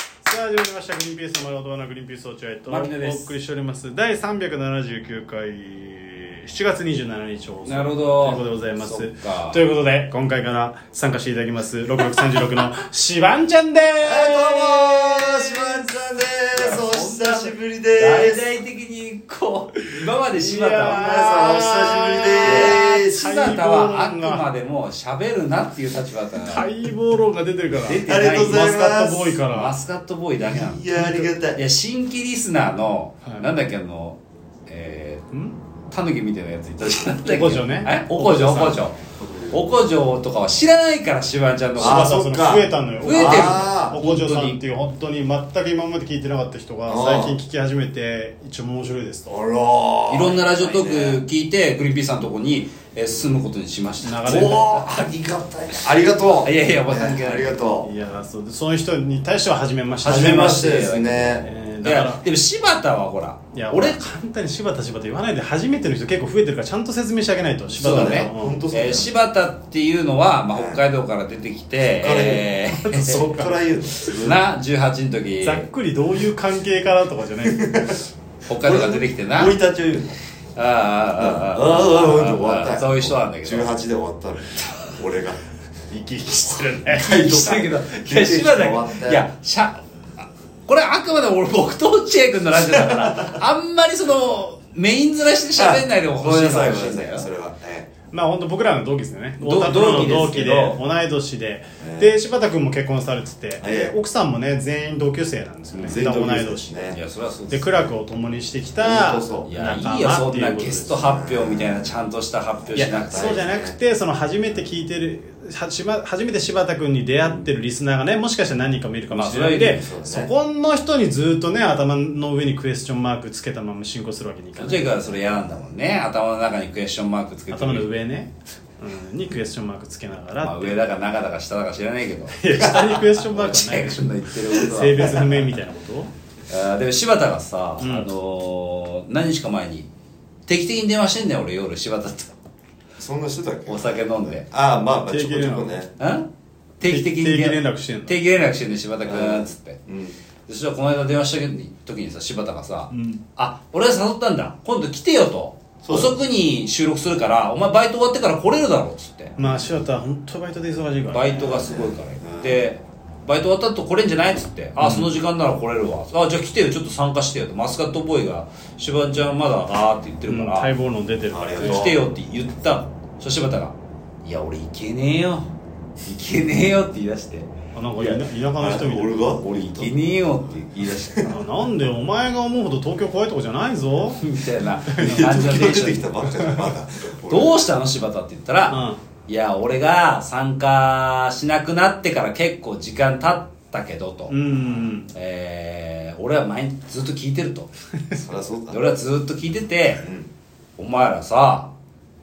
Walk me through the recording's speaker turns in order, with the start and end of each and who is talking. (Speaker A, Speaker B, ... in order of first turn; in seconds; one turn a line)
Speaker A: 0.2-15.9
Speaker B: 2.7-3.3
Speaker B: 7.7-9.6
Speaker C: 14.0-18.5
Speaker B: 16.5-21.2
Speaker A: 20.4-24.5
Speaker C: 20.8-23.4
Speaker B: 22.4-26.7
Speaker A: 26.4-29.8
Speaker B: 27.9-28.7
Speaker C: 28.1-29.4
Speaker B: 29.5-31.0
Speaker C: 30.4-31.6
Speaker A: 30.9-31.3
Speaker B: 31.5-35.3
Speaker A: 33.2-33.5
Speaker B: 35.9-39.0
Speaker A: 37.2-38.8
Speaker C: 39.2-39.6
Speaker B: 39.5-42.1
Speaker C: 41.8-44.0
Speaker A: 41.8-49.4
Speaker B: 43.0-44.6
Speaker C: 46.9-47.4
Speaker C: 49.3-51.2
Speaker B: 50.1-55.0
Speaker A: 54.0-54.7
Speaker C: 54.2-57.9
Speaker B: 56.3-57.6
Speaker A: 57.8-60.7
Speaker B: 60.0-64.0
Speaker C: 60.0-61.5
Speaker A: 61.4-62.2
Speaker A: 63.5-68.6
Speaker C: 67.8-69.1
Speaker B: 67.8-73.4
Speaker C: 70.5-70.8
Speaker C: 72.0-74.4
Speaker B: 74.1-75.7
Speaker A: 75.4-77.7
Speaker C: 77.5-78.0
Speaker B: 78.5-79.6
Speaker C: 78.5-80.2
Speaker B: 80.6-83.7
Speaker C: 81.2-85.4
Speaker A: 85.9-87.1
Speaker B: 86.9-97.3
Speaker C: 87.0-89.3
Speaker C: 92.6-93.4
Speaker C: 95.5-97.9
Speaker A: 98.1-106.9
Speaker B: 99.4-100.8
Speaker C: 101.8-102.2
Speaker C: 103.6-104.0
Speaker B: 105.7-106.0
Speaker C: 105.8-107.0
Speaker B: 106.9-108.0
Speaker A: 107.5-110.9
Speaker C: 108.8-109.5
Speaker B: 109.5-113.5
Speaker C: 110.9-112.0
Speaker C: 112.6-113.8
Speaker A: 112.8-125.0
Speaker B: 119.1-119.9
Speaker C: 119.6-120.3
Speaker B: 124.6-127.9
Speaker C: 125.1-125.7
Speaker A: 127.5-130.8
Speaker B: 130.4-135.4
Speaker A: 132.3-136.1
Speaker C: 132.6-132.9
Speaker B: 136.5-139.9
Speaker A: 137.8-138.1
Speaker B: 140.5-142.3
Speaker C: 143.0-145.9
Speaker B: 143.7-144.5
Speaker A: 145.1-145.8
Speaker B: 146.0-146.3
Speaker B: 146.8-149.8
Speaker A: 146.9-148.2
Speaker C: 149.1-150.2
Speaker B: 150.5-159.3
Speaker A: 152.9-153.2
Speaker C: 155.8-156.2
Speaker A: 159.4-161.7
Speaker B: 161.1-170.7
Speaker C: 161.4-162.7
Speaker A: 164.8-165.1
Speaker A: 170.3-171.9
Speaker C: 171.3-172.1
Speaker B: 171.6-175.5
Speaker B: 176.1-178.2
Speaker A: 177.7-179.2
Speaker C: 178.6-180.0
Speaker B: 179.5-181.2
Speaker C: 180.7-181.4
Speaker A: 181.2-184.2
Speaker B: 184.2-186.6
Speaker A: 184.9-185.4
Speaker C: 185.0-187.6
Speaker B: 187.3-194.3
Speaker A: 188.7-189.0
Speaker A: 194.3-195.1
Speaker B: 195.1-197.7
Speaker C: 198.2-198.8
Speaker B: 198.7-200.1
Speaker C: 200.0-200.3
Speaker B: 200.8-201.7